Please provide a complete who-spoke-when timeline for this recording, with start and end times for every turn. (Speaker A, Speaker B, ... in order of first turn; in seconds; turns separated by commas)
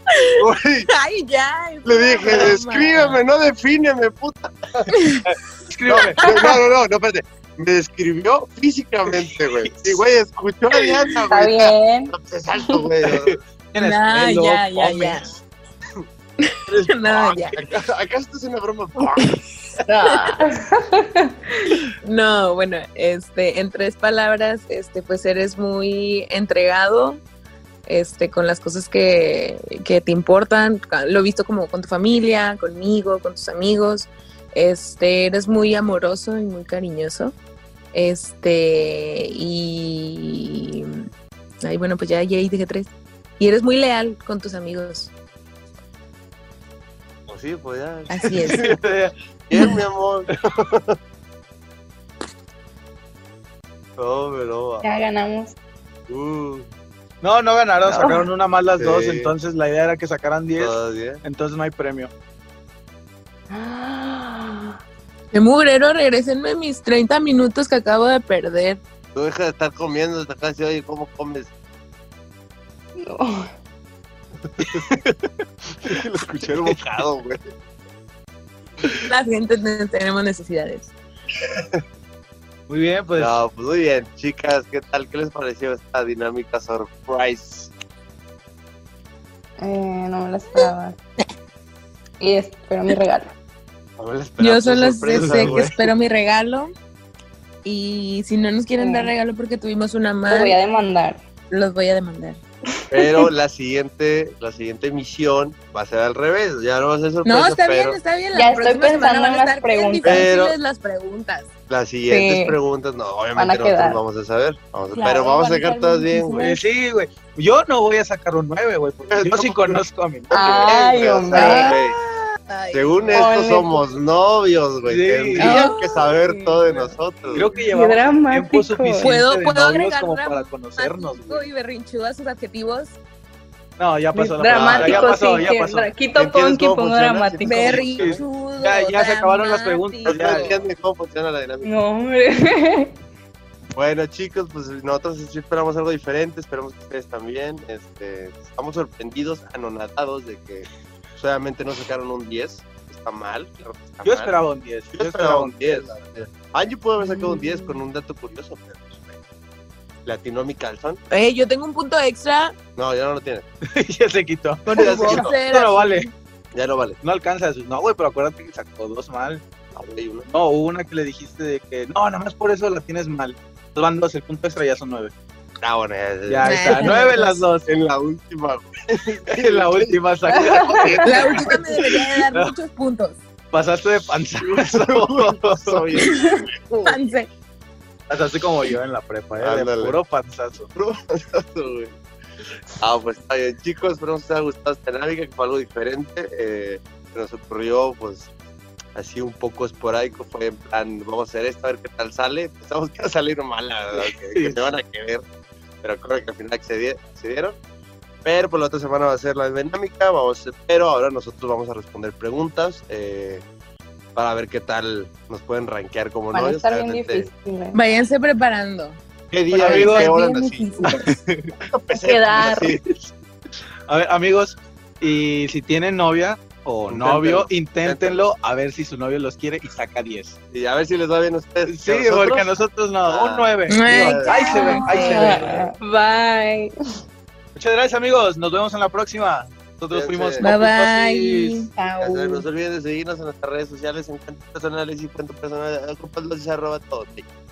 Speaker A: 0.3-0.9, Speaker B: 0.9-3.2, Speaker A: 1.8-5.0, Speaker B: 4.9-5.2, Speaker C: 5.3-6.4, Speaker A: 5.9-13.4, Speaker B: 6.2-6.5, Speaker C: 9.6-10.0, Speaker D: 11.3-12.8, Speaker C: 13.0-15.3, Speaker B: 13.8-15.3, Speaker B: 16.4-17.5, Speaker C: 16.7-17.0, Speaker A: 17.0-19.4, Speaker D: 19.9-21.3, Speaker B: 20.1-20.4, Speaker B: 22.0-27.2, Speaker B: 27.9-37.4, Speaker B: 37.9-41.0, Speaker B: 41.6-45.1, Speaker A: 47.3-48.8, Speaker B: 48.1-48.7, Speaker C: 48.4-49.1, Speaker A: 49.5-51.0, Speaker A: 54.0-54.8, Speaker D: 54.8-55.5, Speaker A: 56.1-56.7, Speaker C: 57.2-60.7, Speaker A: 58.8-59.3, Speaker A: 60.5-61.2, Speaker C: 61.2-62.1, Speaker D: 63.5-64.8, Speaker B: 65.3-68.8, Speaker A: 69.1-71.5, Speaker D: 73.0-73.4, Speaker A: 74.6-74.9, Speaker C: 74.6-75.0, Speaker A: 75.8-77.5, Speaker C: 76.4-76.7, Speaker B: 79.1-80.9, Speaker A: 81.3-81.8, Speaker C: 82.7-83.3, Speaker A: 83.1-87.7, Speaker D: 89.6-91.0, Speaker D: 92.2-93.3, Speaker A: 94.0-95.7, Speaker B: 94.4-96.7, Speaker C: 95.1-95.8, Speaker B: 97.6-100.5, Speaker D: 98.8-99.1, Speaker D: 100.3-101.2, Speaker B: 101.5-102.4, Speaker A: 102.9-108.0, Speaker B: 107.2-111.5, Speaker D: 108.3-110.3, Speaker A: 110.0-110.5, Speaker A: 111.7-116.5, Speaker B: 112.1-112.6, Speaker D: 113.3-114.0, Speaker B: 114.9-116.6, Speaker C: 116.4-120.4, Speaker A: 119.1-122.0, Speaker D: 120.3-121.8, Speaker B: 121.3-123.3, Speaker A: 122.7-127.5, Speaker D: 123.1-123.8, Speaker C: 124.8-125.7, Speaker B: 125.4-127.6, Speaker C: 127.3-131.4, Speaker D: 127.7-129.2, Speaker B: 129.0-133.0, Speaker C: 133.8-135.9, Speaker D: 134.1-137.8, Speaker A: 134.5-135.4, Speaker A: 136.1-138.2, Speaker B: 137.4-140.6, Speaker C: 137.9-140.5, Speaker A: 140.0-141.7, Speaker D: 141.6-142.9, Speaker A: 143.7-154.4, Speaker C: 154.0-155.9, Speaker A: 154.9-159.2, Speaker D: 157.0-157.7, Speaker A: 160.1-161.0, Speaker B: 161.1-162.6, Speaker A: 162.8-163.4, Speaker C: 163.7-166.1, Speaker B: 164.7-166.1, Speaker A: 164.7-165.3, Speaker A: 166.5-167.0, Speaker C: 167.0-169.4, Speaker A: 169.7-170.3, Speaker C: 170.3-175.1, Speaker A: 175.6-176.9, Speaker C: 176.3-177.7, Speaker B: 176.4-177.4, Speaker A: 177.7-180.0, Speaker C: 179.3-182.5, Speaker D: 180.3-181.2, Speaker A: 180.7-181.6, Speaker B: 181.0-183.2, Speaker C: 183.5-185.9, Speaker A: 184.4-187.0, Speaker D: 186.0-186.4, Speaker B: 186.8-187.3, Speaker C: 188.1-190.7, Speaker A: 189.4-190.0, Speaker A: 190.7-191.9, Speaker A: 192.8-198.3, Speaker A: 198.9-205.2, Speaker C: 203.9-204.7, Speaker A: 205.8-207.6, Speaker A: 208.2-213.4, Speaker A: 214.1-217.3, Speaker D: 216.3-217.8, Speaker B: 217.7-219.0, Speaker A: 219.3-221.0, Speaker C: 219.5-220.2, Speaker B: 219.5-221.1, Speaker C: 220.8-221.5, Speaker A: 221.6-222.8, Speaker D: 222.0-222.8, Speaker C: 223.9-230.3, Speaker A: 226.9-228.2, Speaker A: 230.5-235.5, Speaker C: 231.7-235.7, Speaker B: 233.7-235.5, Speaker D: 234.3-236.7, Speaker C: 237.5-241.7, Speaker A: 239.9-240.5, Speaker B: 240.4-241.7, Speaker D: 241.8-242.4, Speaker A: 242.0-247.2